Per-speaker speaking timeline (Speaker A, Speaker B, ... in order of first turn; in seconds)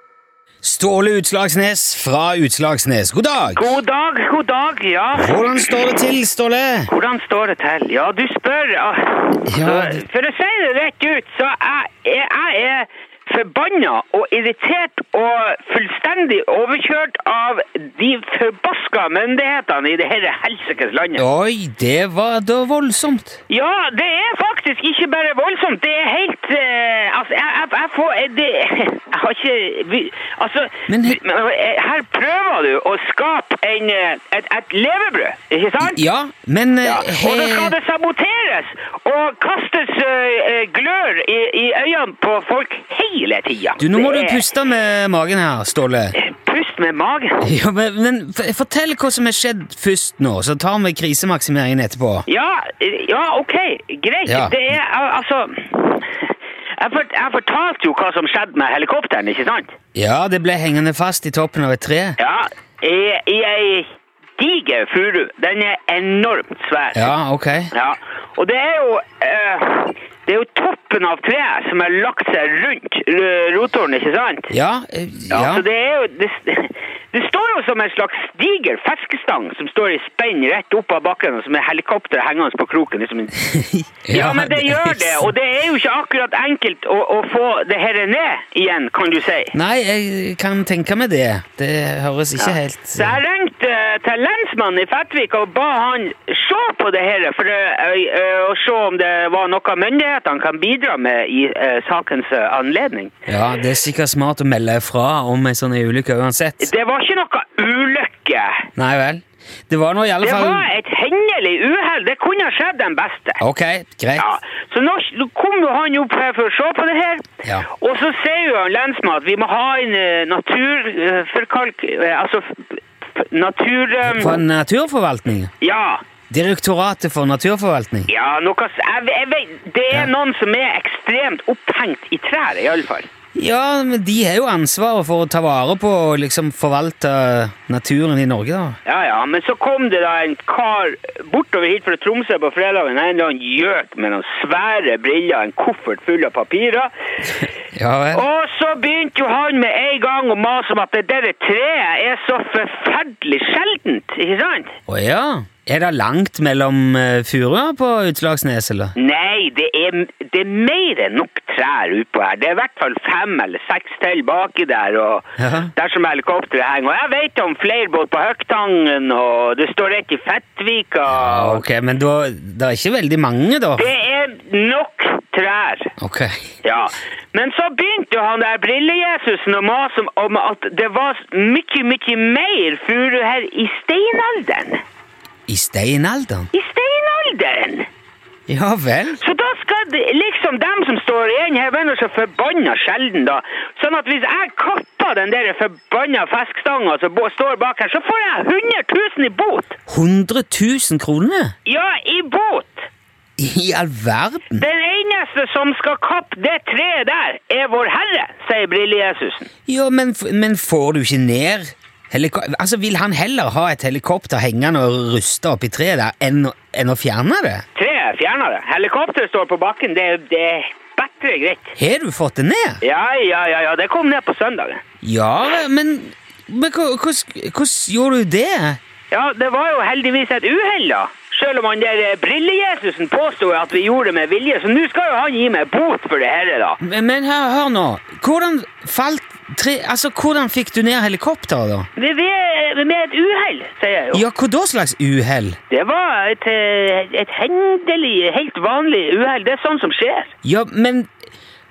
Speaker A: 0.6-3.8, 5.1-6.9, 9.5-10.0, 21.2-23.4, 30.9-31.2, 35.8-37.7, 43.8-46.1, 47.4-52.2, 54.2-54.6, 59.9-62.2, 66.9-67.7, 74.5-75.7, 83.6-85.3, 89.5-93.2, 103.3-106.7, 108.8-110.7, 113.4-114.2, 124.0-125.5, 126.3-128.1, 133.3-138.8, 147.7-148.2, 154.9-158.9, 165.4-165.7, 171.1-173.9, 176.0-176.3, 185.5-186.5, 188.5-189.2, 199.9-201.5, 203.4-204.7, 209.7-217.6, 221.8-222.8, 225.0-228.8, 236.8-241.9, 244.1-245.6, 250.4-251.1
Speaker B: 3.5-5.7, 6.9-21.2, 23.5-36.0, 36.8-44.5, 46.1-47.5, 52.3-59.7, 62.2-67.1, 67.7-74.5, 75.3-83.5, 84.1-89.5, 92.4-103.2, 106.6-108.7, 110.2-113.4, 114.2-124.4, 125.6-126.0, 128.1-133.1, 138.8-147.4, 148.1-154.8, 158.9-171.6, 173.8-175.9, 176.6-184.8, 186.5-187.9, 189.2-199.8, 201.6-202.9, 204.5-209.5, 217.7-221.8, 222.8-224.8, 229.1-236.8, 241.9-244.2, 245.7-250.3